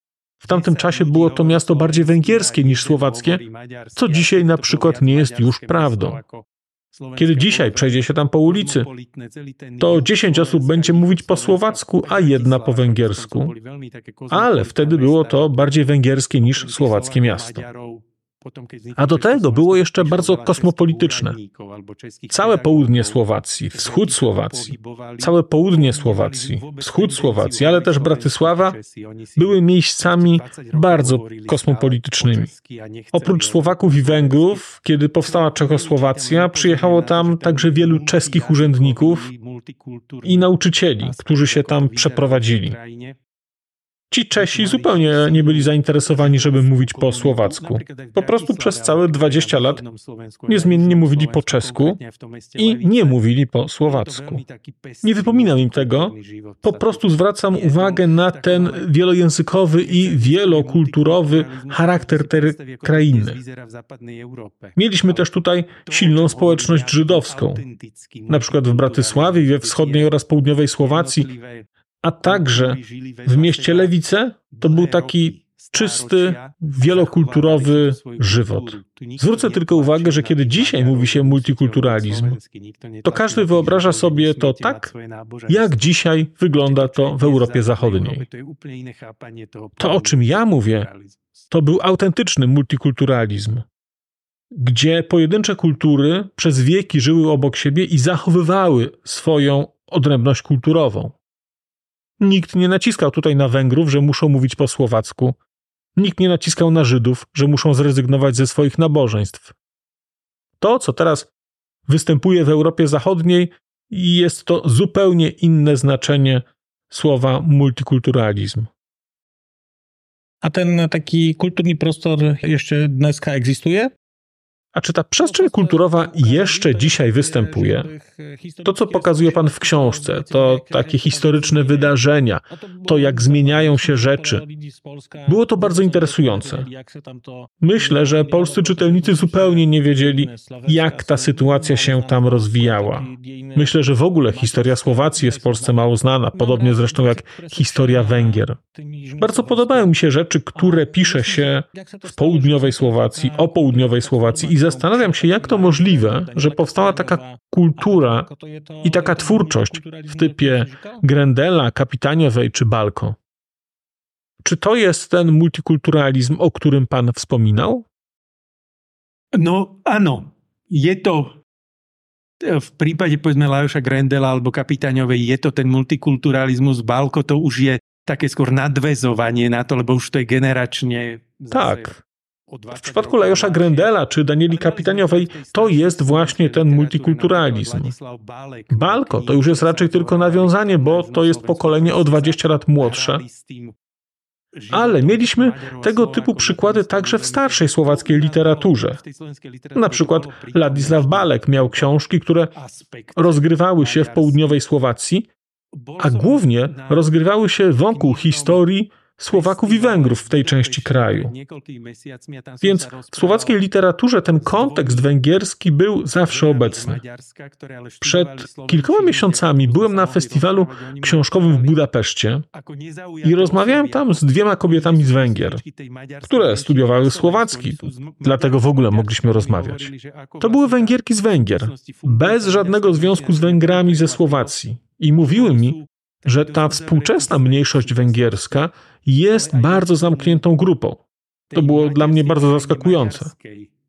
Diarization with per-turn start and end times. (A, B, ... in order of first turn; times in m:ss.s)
0:00.4-0:34.7 A
0:00.4-0:03.4 B
0:04.0-0:06.2 B
0:07.2-0:08.9 B
0:09.8-0:13.5 B
0:14.3-0:17.6 B
0:19.0-0:21.4 B
0:22.3-0:28.8 B
0:29.4-0:32.5 B
0:33.1-0:39.3 B
0:35.2-0:43.2 A
0:40.2-0:42.8 B
0:44.1-0:49.8 B
0:44.3-0:53.2 A
0:50.5-0:52.0 B
0:52.6-0:54.4 B
0:53.8-0:58.9 A
0:55.0-1:03.4 B
0:59.8-1:05.3 A
1:04.8-1:07.6 B
1:05.8-1:11.7 A
1:08.3-1:11.3 B
1:12.0-1:22.4 B
1:12.2-1:13.9 A
1:14.5-1:25.9 A
1:23.0-1:24.9 B
1:25.5-1:28.2 B
1:26.5-1:31.4 A
1:29.8-1:30.9 B
1:31.5-1:33.6 B
1:34.5-1:41.1 B
1:42.2-1:45.4 B
1:46.0-1:49.5 B
1:50.6-1:51.3 B
1:51.9-1:58.7 B
2:00.4-2:03.9 C
2:04.7-2:07.9 B
2:05.2-2:12.0 C
2:08.6-2:14.4 B
2:12.5-2:29.9 C
2:15.2-2:16.7 B
2:17.6-2:28.6 B
2:29.2-2:38.3 B
2:30.5-2:41.0 C
2:38.8-2:43.2 B
2:44.4-2:47.8 B
2:49.3-2:51.4 A
2:52.4-3:01.9 A
3:01.5-3:02.0 B
3:02.5-3:03.9 A
3:02.7-3:07.9 B
3:04.5-3:13.8 A
3:08.7-3:13.2 B
3:14.5-3:22.0 A
3:14.7-3:19.0 B
3:19.7-3:22.5 B
3:22.5-3:24.6 A
3:23.2-3:25.3 B
3:25.7-3:27.2 A
3:26.0-3:31.3 B
3:27.7-3:28.6 A
3:29.3-3:33.6 A
3:32.6-3:37.0 B
3:34.4-3:35.1 A
3:36.2-3:41.8 A
3:38.0-3:42.4 B
3:42.5-3:54.6 A
3:43.2-3:45.6 B
3:46.2-4:01.0 B
3:55.2-3:58.6 A
3:59.3-4:00.5 A
4:01.5-4:03.7 A
4:01.5-4:03.3 B